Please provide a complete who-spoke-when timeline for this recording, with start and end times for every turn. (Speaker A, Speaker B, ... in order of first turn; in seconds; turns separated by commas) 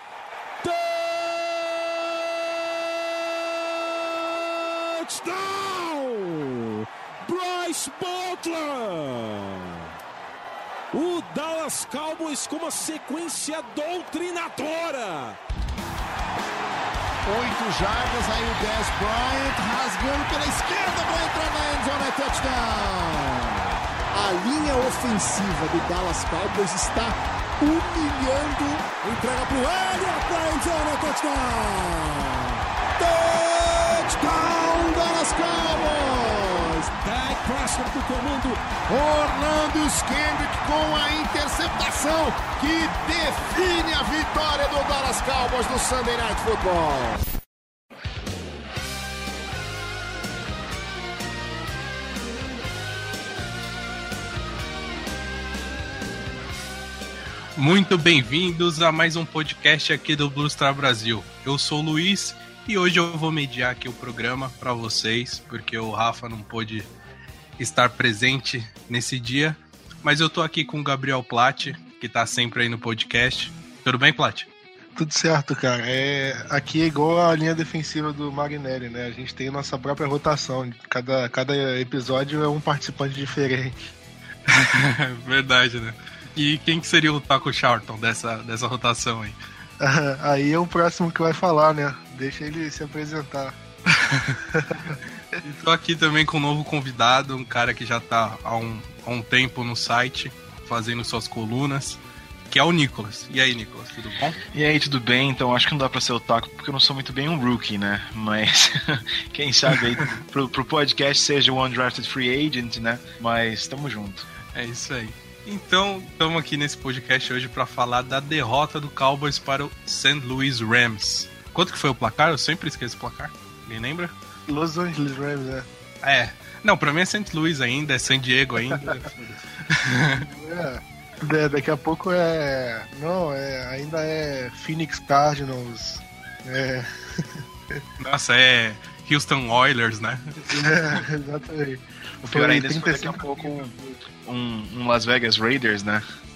Speaker A: 0.6-2.0, Speaker A: 3.8-9.8, Speaker A: 10.9-15.4, Speaker B: 17.2-23.5, Speaker B: 24.1-36.9, Speaker A: 37.0-38.8, Speaker B: 38.9-47.2, Speaker C: 57.6-66.9, Speaker C: 67.6-74.5, Speaker D: 75.0-83.8, Speaker C: 84.5-89.4, Speaker D: 89.8-93.6, Speaker C: 94.0-94.4, Speaker D: 94.5-95.0, Speaker C: 95.4-104.4, Speaker E: 104.5-114.3, Speaker C: 109.8-110.1, Speaker C: 114.5-124.1, Speaker D: 124.5-125.7, Speaker C: 126.0-130.2, Speaker D: 130.2-137.8, Speaker C: 138.0-141.0, Speaker D: 140.5-144.0, Speaker E: 142.2-146.0